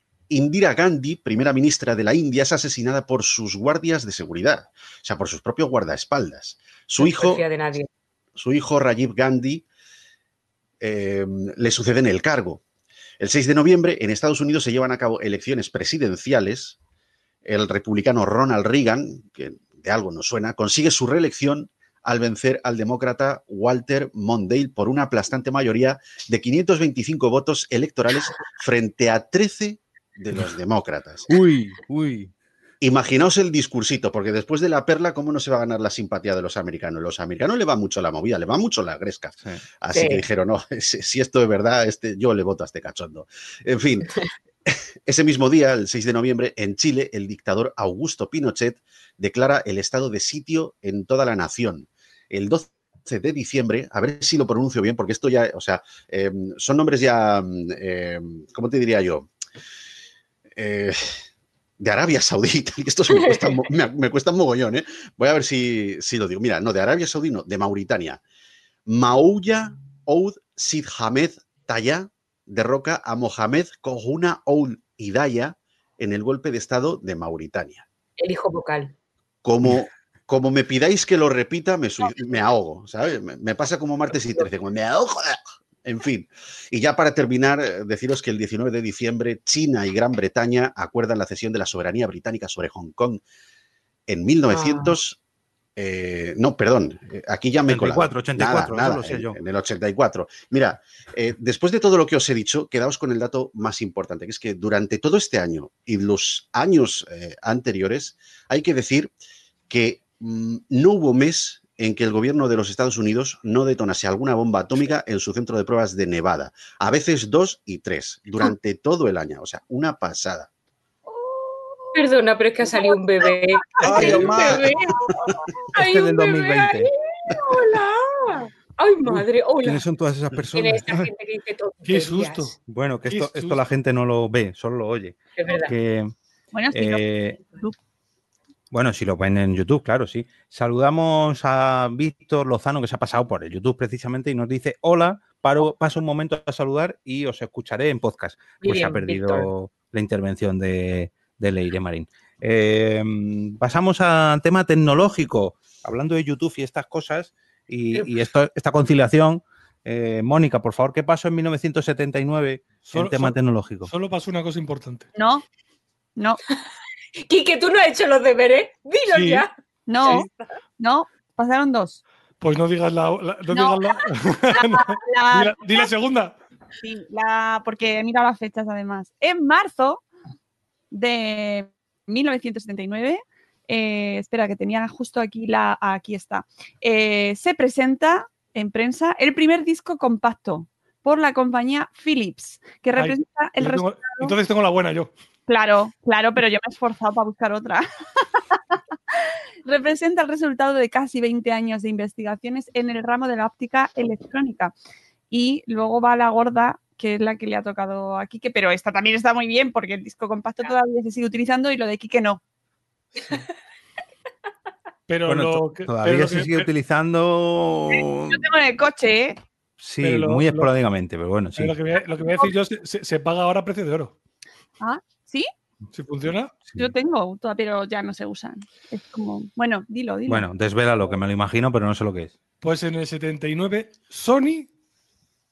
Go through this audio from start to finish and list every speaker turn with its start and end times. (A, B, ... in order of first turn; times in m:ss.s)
0:00.3-0:07.4 A
0:07.0-0:07.9 B
0:08.4-0:09.6 A
0:10.8-0:12.6 A
0:13.2-0:16.8 A
0:17.4-0:31.3 A
0:31.3-0:32.3 C
0:32.8-0:59.3 A
0:39.9-0:40.2 B
1:00.6-1:01.2 A
1:01.8-1:08.2 A
1:03.2-1:03.6 B
1:08.9-1:17.8 A
1:18.2-1:18.9 B
1:19.4-1:33.2 A
1:34.1-1:35.2 A
1:34.5-1:35.0 B
1:35.8-1:49.1 A
1:37.7-1:39.4 C
1:49.7-2:00.5 A
2:01.1-2:02.1 D
2:01.9-2:04.9 B
2:02.6-2:05.5 D
2:03.8-2:05.3 A
2:03.8-2:04.5 C
2:03.9-2:04.5 E
2:05.7-2:06.9 C
2:05.7-2:09.9 B
2:09.0-2:11.1 C
2:10.5-2:12.5 B
2:11.8-2:12.6 E
2:12.7-2:16.1 C
2:13.1-2:13.6 E
2:15.4-2:15.7 B
2:16.5-2:17.8 D
2:16.7-2:17.4 C
2:18.7-2:43.9 C
2:28.6-2:29.5 B
2:42.9-2:43.4 E
2:43.9-2:45.1 E
2:45.2-2:45.4 D
2:47.2-2:49.5 B
2:49.1-2:49.5 E
2:49.9-2:50.3 D
2:50.0-2:50.5 B
2:50.8-2:52.0 D
2:52.4-2:56.4 E
2:53.5-2:54.0 D
2:54.5-2:55.9 D
2:56.8-3:00.0 D
3:00.9-3:14.4 D
3:13.0-3:15.1 E
3:15.5-3:18.6 D
3:19.1-3:24.8 D
3:25.3-3:32.4 D
3:35.1-3:36.7 E
3:35.3-3:38.5 C
3:37.9-3:39.4 D
3:39.8-3:41.8 C
3:40.0-3:40.7 E
3:41.6-3:44.2 E
3:42.2-3:42.5 D
3:44.8-3:45.5 D
3:45.9-3:46.6 E
3:46.8-3:50.5 D
3:50.3-3:52.4 C
3:52.6-3:54.7 E